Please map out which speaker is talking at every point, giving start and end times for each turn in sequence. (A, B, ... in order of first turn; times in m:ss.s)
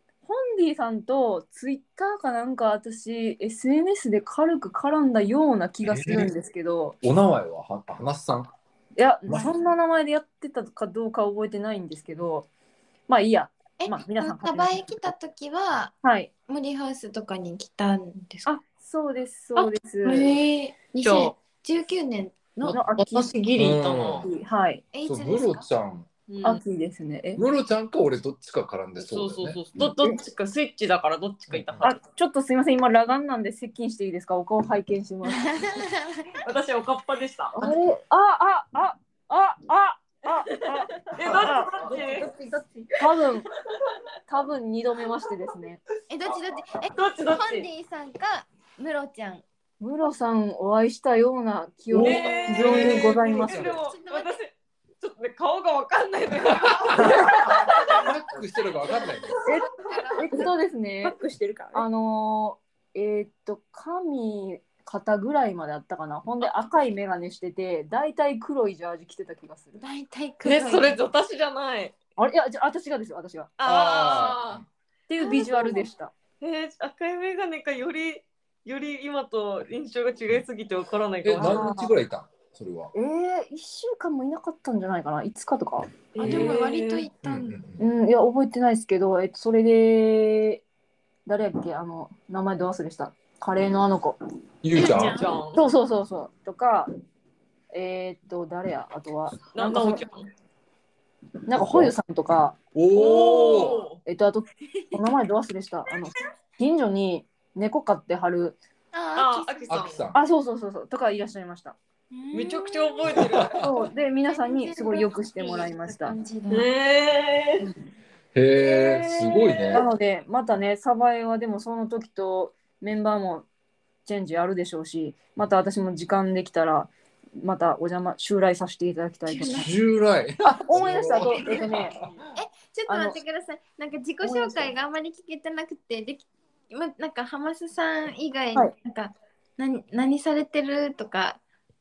0:00.2-0:07.0 A
0:05.8-0:06.3 B
0:07.0-0:08.5 B
0:09.0-0:12.5 A
0:09.3-0:09.5 B
0:13.1-0:15.0 A
0:13.8-0:16.0 C
0:16.0-0:16.3 A
0:16.5-0:18.5 C
0:18.4-0:20.3 A
0:19.6-0:22.8 C
0:21.0-0:21.3 D
0:22.6-0:24.3 D
0:22.7-0:23.3 A
0:23.6-0:24.3 B
0:24.2-0:24.8 A
0:24.9-0:25.7 C
0:25.0-0:26.1 B
0:26.3-0:26.6 D
0:26.4-0:27.4 A
0:27.4-0:29.9 B
0:29.0-0:32.0 D
0:31.5-0:31.9 B
0:31.8-0:35.5 A
0:35.3-0:36.4 C
0:36.4-0:37.7 D
0:37.6-0:41.9 A
0:41.1-0:42.3 D
0:41.2-0:43.0 E
0:43.0-0:43.5 A
0:44.3-0:45.8 A
0:46.1-0:49.4 C
0:47.0-0:47.6 D
0:49.8-0:53.7 A
0:51.9-0:58.1 D
0:51.9-0:53.8 B
0:52.0-0:54.4 C
0:57.9-0:59.5 B
0:58.9-0:59.6 D
0:59.8-1:00.5 C
1:00.2-1:01.2 A
1:01.0-1:01.8 E
1:01.7-1:09.8 A
1:09.8-1:11.0 C
1:10.4-1:12.0 D
1:12.2-1:13.5 A
1:13.6-1:14.6 D
1:13.6-1:14.6 B
1:15.1-1:16.1 A
1:15.2-1:15.8 C
1:16.4-1:21.8 D
1:21.2-1:22.9 B
1:21.4-1:21.9 A
1:22.9-1:26.5 A
1:26.1-1:27.1 D
1:26.2-1:27.6 C
1:27.2-1:27.8 B
1:27.8-1:30.6 A
1:31.2-1:34.2 A
1:34.6-1:35.2 B
1:34.7-1:35.3 C
1:34.8-1:35.7 D
1:35.5-1:36.9 A
1:37.7-1:40.0 A
1:39.5-1:40.3 D
1:41.5-1:42.6 A
1:41.6-1:41.9 B
1:42.7-1:43.8 B
1:42.9-1:44.0 D
1:43.5-1:43.8 C
1:44.0-1:48.6 A
1:48.9-1:50.0 C
1:49.2-1:50.1 D
1:49.7-1:50.2 B
1:50.1-1:51.8 A
1:52.1-1:53.4 C
1:52.3-1:53.7 D
1:53.1-1:53.5 B
1:53.6-1:56.2 A
1:54.3-1:56.7 C
1:56.5-1:57.7 D
1:58.3-1:59.8 B
1:58.6-1:59.8 D
1:59.7-2:03.4 A
2:04.0-2:09.7 A
2:09.3-2:09.7 C
2:09.6-2:12.1 B
2:10.6-2:11.7 E
2:11.1-2:12.0 A
2:12.4-2:21.4 C
2:12.9-2:13.2 A
2:14.2-2:14.7 A